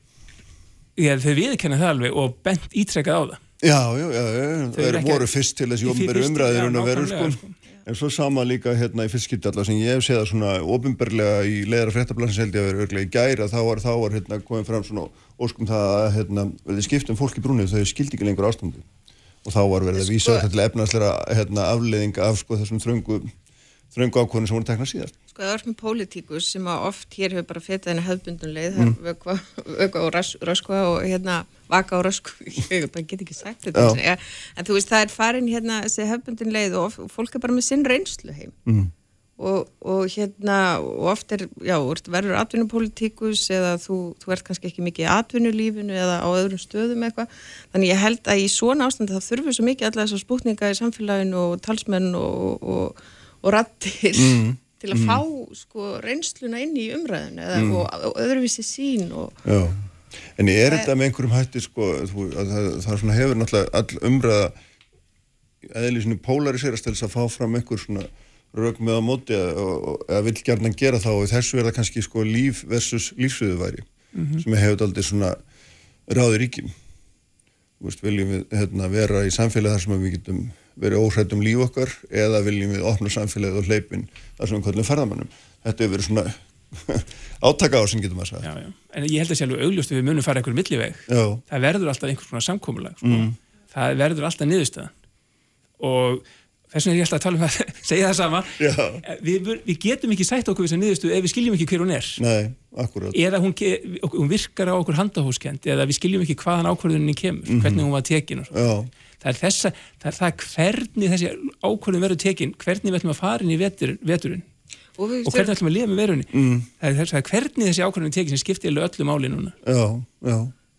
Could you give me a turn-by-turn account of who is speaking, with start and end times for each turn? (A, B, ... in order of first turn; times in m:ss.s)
0:01.0-0:03.4 A
0:03.6-0:18.8 B
0:04.7-0:05.3 A
0:05.8-0:07.6 A
0:19.4-0:23.3 B
0:20.0-0:20.5 C
0:23.9-0:25.2 B
0:25.4-0:38.6 C
0:38.7-0:38.9 B
0:39.4-0:59.4 C
0:54.2-0:55.2 B
0:57.6-0:57.8 B
0:59.5-0:59.9 B
1:00.4-1:04.6 B
1:00.6-1:00.9 C
1:05.6-1:13.9 B
1:14.2-1:14.4 A
1:14.4-1:15.4 B
1:16.1-1:16.7 B
1:17.8-1:28.5 B
1:28.4-1:34.9 A
1:31.1-1:31.4 B
1:33.0-1:33.3 B
1:35.8-1:42.2 A
1:38.6-1:39.0 B
1:42.2-1:43.2 B
1:43.1-1:48.7 A
1:47.5-1:47.9 B
1:48.5-1:48.9 B
1:49.2-1:54.4 A
1:55.0-1:55.5 C
1:55.2-1:59.6 A
1:56.3-1:56.7 B
1:59.6-2:00.5 B